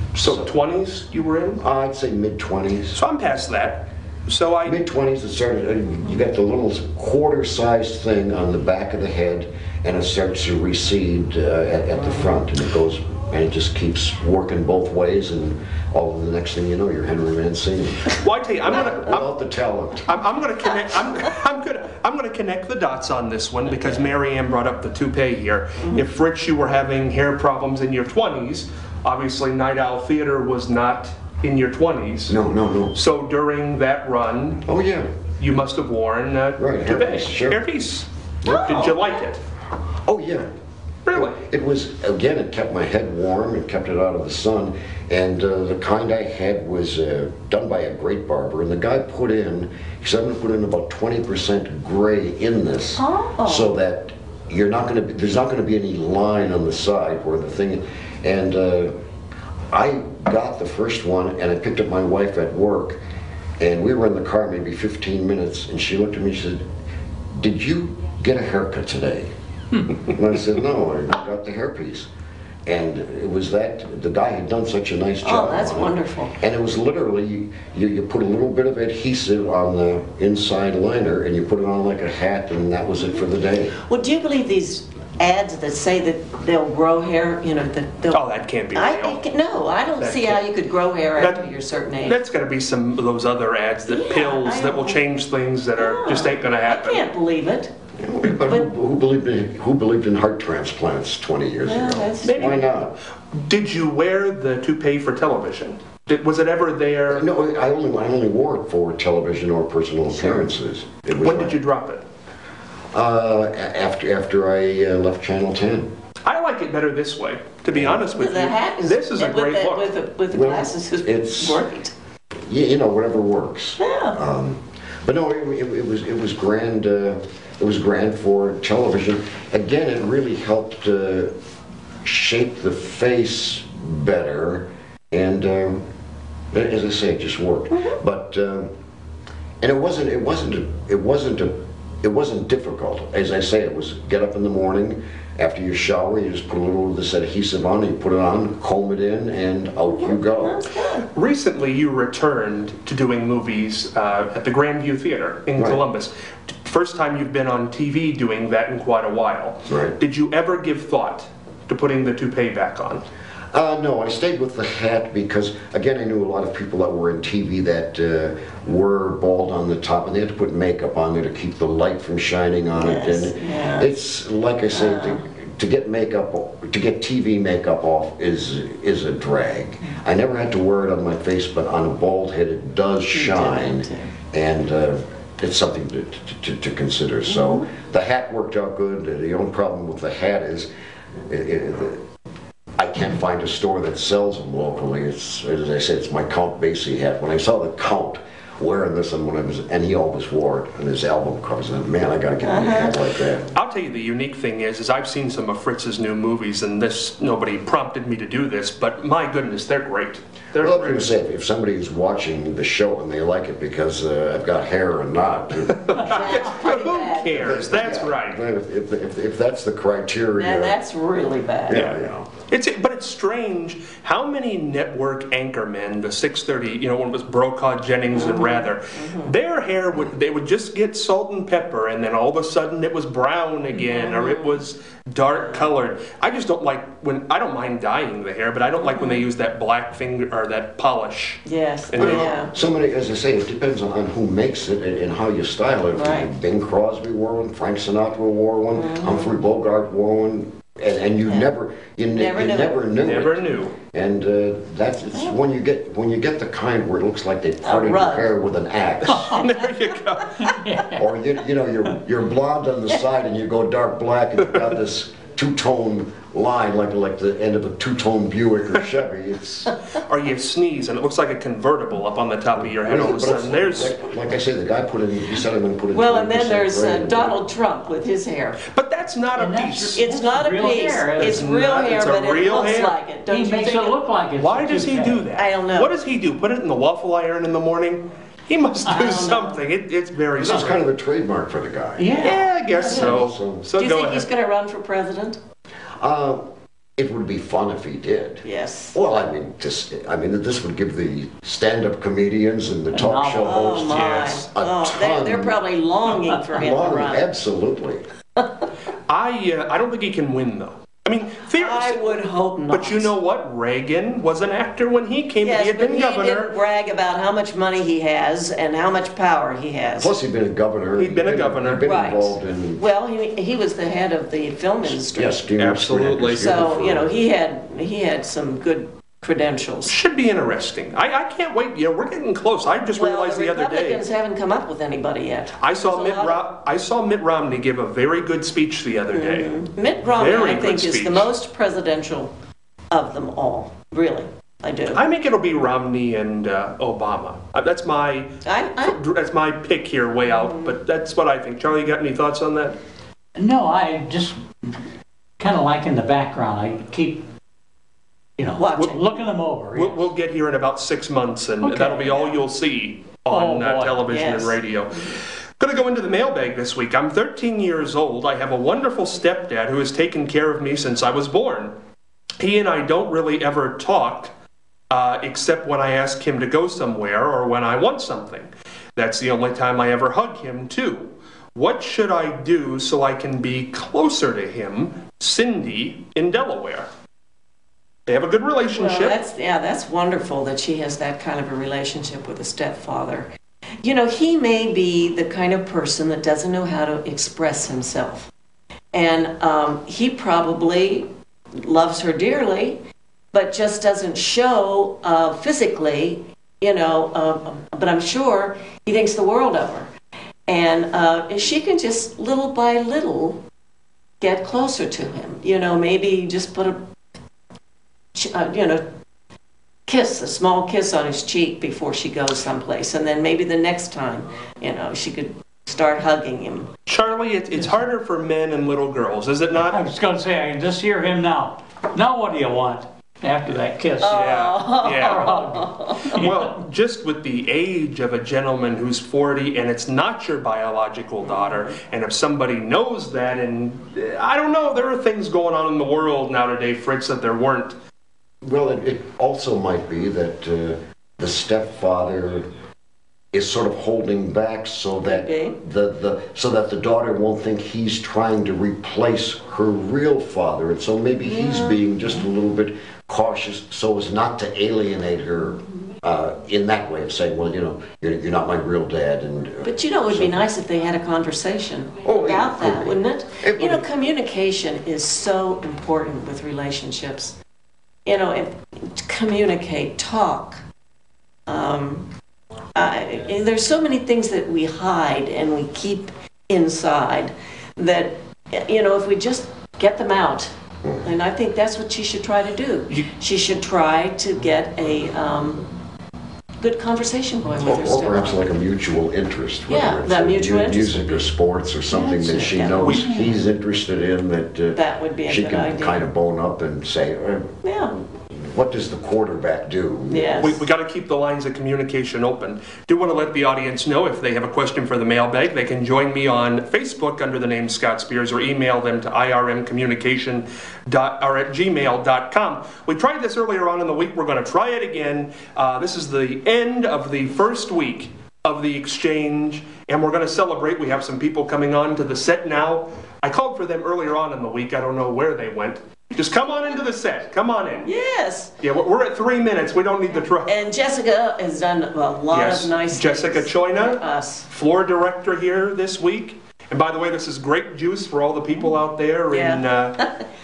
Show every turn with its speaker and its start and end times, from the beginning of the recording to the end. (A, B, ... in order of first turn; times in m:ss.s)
0:00.1-0:01.6 A
0:01.6-0:03.0 B
0:02.9-0:04.8 A
0:04.6-0:20.0 B
0:12.0-0:12.3 C
0:18.2-0:19.2 A
0:20.0-0:32.4 A
0:32.3-0:33.0 B
0:32.9-0:34.6 A
0:34.6-0:35.1 B
0:35.4-0:39.4 A
0:36.6-0:37.6 B
0:38.4-0:39.1 C
0:38.4-0:38.8 B
0:40.0-0:40.4 B
0:41.0-0:41.4 A
0:41.1-0:58.9 B
0:53.0-0:53.7 C
0:59.7-1:03.0 B
1:03.6-1:06.6 B
1:07.3-1:12.1 B
1:12.7-1:23.8 B
1:15.2-1:16.4 C
1:23.8-1:28.2 C
1:28.1-1:29.2 A
1:28.7-1:32.2 C
1:30.0-1:30.5 A
1:31.2-1:31.5 A
1:32.0-1:37.1 A
1:33.9-1:35.0 C
1:35.8-1:37.7 C
1:38.0-1:43.0 B
1:41.6-1:42.7 C
1:42.2-1:42.7 A
1:43.3-1:47.2 A
1:47.1-1:51.6 B
1:51.2-1:52.0 A
1:52.9-1:55.9 B
1:56.2-1:59.9 A
1:57.7-1:58.1 B
1:58.0-2:01.9 C
2:00.3-2:01.6 B
2:02.4-2:11.3 B
2:03.8-2:04.2 C
2:12.0-2:15.8 B
2:16.5-2:18.7 B
2:19.6-2:30.6 B
2:29.9-2:31.1 C
2:31.1-2:43.0 A
2:35.6-2:35.8 B
2:39.7-2:40.0 B
2:43.5-3:10.7 B
2:52.8-2:53.9 C
2:54.7-2:55.2 C
3:03.1-3:04.1 C
3:07.3-3:07.7 C
3:11.2-3:12.0 B
3:12.8-3:23.5 B
3:22.4-3:22.9 C
3:23.5-3:31.1 A
3:30.6-3:36.2 B
3:35.6-3:38.4 A
3:36.0-3:37.4 C
3:37.3-3:40.8 B
3:40.4-3:41.9 C
3:41.7-3:42.4 B
3:41.7-4:02.5 A
3:48.1-3:49.3 C
3:53.7-3:54.6 C
3:55.3-3:55.7 C
3:58.8-3:59.2 C
4:01.4-4:02.5 C
4:02.0-4:19.4 B
4:05.9-4:06.3 C
4:08.7-4:09.3 C
4:12.1-4:12.8 C
4:13.0-4:13.7 A
4:17.6-4:18.3 C
4:19.0-4:20.6 A
4:19.1-4:19.4 D
4:20.4-4:21.0 D
4:21.0-4:29.7 B
4:30.0-4:33.9 A
4:32.5-4:37.4 B
4:35.9-4:38.6 C
4:38.7-4:40.0 A
4:39.3-4:41.5 D
4:40.0-4:44.0 C
4:41.2-4:42.9 A
4:43.3-4:45.3 D
4:44.4-4:50.8 A
4:45.4-4:45.9 C
4:48.8-4:49.6 C
4:50.3-4:52.2 B
4:52.0-4:52.9 D
4:52.1-4:53.2 C
4:52.2-4:54.3 A
4:52.8-4:53.6 B
4:53.8-4:55.4 C
4:56.0-5:05.6 B
4:58.4-4:59.0 C
5:02.9-5:03.7 D
5:03.4-5:07.2 C
5:03.8-5:04.5 A
5:06.5-5:08.0 B
5:08.4-5:08.7 C
5:09.1-5:16.5 A
5:11.5-5:13.1 C
5:15.4-5:20.1 C
5:20.0-5:22.8 B
5:21.0-5:21.8 A
5:21.8-5:25.4 C
5:25.1-5:27.1 B
5:25.6-5:26.5 A
5:26.4-5:29.9 C
5:29.8-5:34.0 A
5:32.9-5:36.4 C
5:35.6-5:39.6 A
5:39.1-5:42.3 C
5:40.1-5:41.3 A
5:42.9-5:45.0 C
5:44.9-5:52.8 A
5:48.4-5:49.0 C
5:50.3-5:50.7 C
5:53.4-5:54.8 D
5:55.4-5:57.2 D
5:58.4-6:00.0 D
5:58.6-5:59.1 C
5:59.7-6:11.7 A
6:01.6-6:02.4 D
6:03.3-6:04.0 D
6:04.0-6:05.2 C
6:12.4-6:14.3 A
6:14.9-6:26.9 A
6:28.1-6:29.2 A
6:28.7-6:33.3 C
6:33.8-6:38.3 C
6:38.9-6:42.8 C
6:43.3-6:49.9 C
6:50.5-6:53.4 C
6:54.2-6:56.8 C
6:58.1-6:58.8 C
6:59.9-7:06.7 C
7:06.8-7:09.8 A
7:09.7-7:16.7 D
7:14.0-7:16.2 C
7:14.0-7:15.4 A
7:16.1-7:27.8 A
7:21.2-7:21.7 C
7:28.4-7:32.5 B
7:33.3-7:50.4 B
7:35.0-7:35.6 C
7:41.2-7:41.8 C
7:49.6-7:57.4 C
7:52.0-7:53.9 B
7:58.0-8:00.6 C
8:01.5-8:02.1 C
8:02.7-8:15.7 C
8:16.6-8:18.4 C
8:17.6-8:27.5 B
8:19.7-8:21.2 C
8:21.9-8:23.3 D
8:22.0-8:23.0 C
8:22.8-8:23.1 A
8:24.7-8:26.0 C
8:27.6-8:28.0 C
8:28.1-8:30.5 B
8:30.1-8:30.6 C
8:30.4-8:57.9 A
8:57.8-8:58.5 C
8:58.6-9:00.5 A
9:00.4-9:04.5 C
9:02.3-9:10.1 A
9:09.3-9:10.2 C